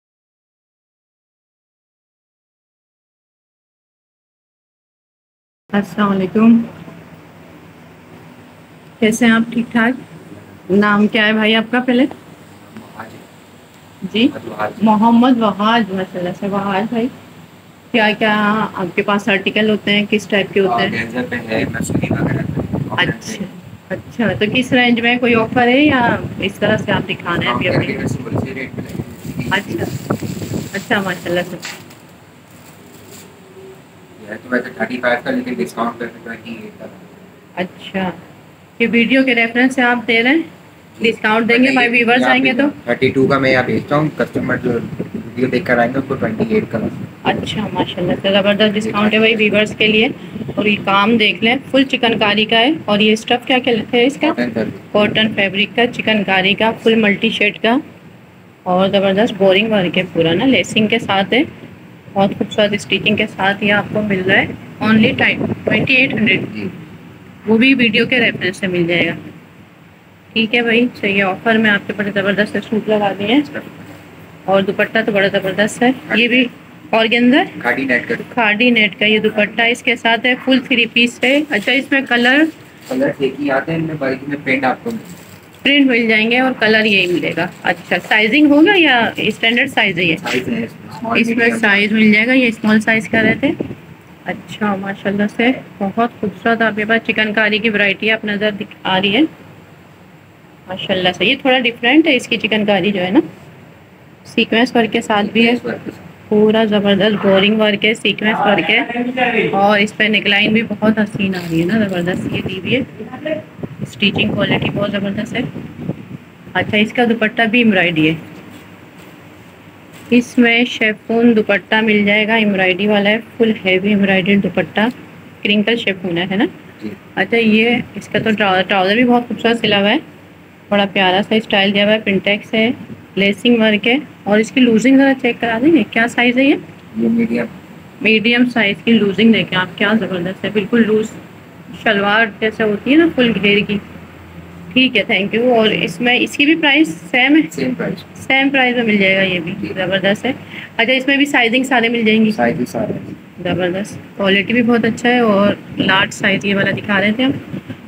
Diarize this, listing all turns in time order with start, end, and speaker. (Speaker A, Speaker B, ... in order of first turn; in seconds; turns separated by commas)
Speaker A: 5.7-6.7, Speaker A: 9.0-10.0, Speaker A: 10.7-12.1, Speaker B: 12.6-13.3, Speaker A: 14.1-17.1, Speaker B: 14.3-14.9, Speaker A: 17.9-20.9, Speaker B: 20.6-23.5, Speaker A: 23.0-28.0, Speaker B: 27.4-29.9, Speaker A: 29.5-29.9, Speaker A: 30.7-31.6, Speaker B: 34.2-37.1, Speaker A: 37.6-38.1, Speaker A: 38.8-40.4, Speaker B: 41.0-47.0, Speaker A: 41.0-42.7, Speaker A: 47.2-54.4, Speaker B: 48.8-49.6, Speaker B: 54.2-54.9, Speaker A: 54.9-57.8, Speaker A: 58.6-61.5, Speaker A: 62.1-66.7, Speaker A: 67.5-69.2, Speaker A: 70.3-73.6, Speaker A: 74.5-77.6, Speaker B: 76.1-76.4, Speaker B: 77.6-78.3, Speaker A: 78.2-82.5, Speaker B: 82.9-85.1, Speaker A: 85.6-90.2, Speaker B: 90.2-91.9, Speaker A: 91.1-93.5, Speaker A: 94.3-99.3, Speaker A: 100.7-103.2, Speaker A: 104.2-105.6, Speaker B: 105.2-106.1, Speaker A: 106.3-115.5, Speaker A: 116.5-118.2, Speaker A: 120.1-126.5, Speaker A: 127.1-130.0, Speaker A: 130.7-136.6, Speaker B: 136.9-137.5, Speaker A: 138.0-141.2, Speaker A: 141.7-143.8, Speaker A: 144.7-147.5, Speaker B: 147.5-148.1, Speaker A: 148.1-152.4, Speaker B: 152.3-153.2, Speaker A: 153.4-157.4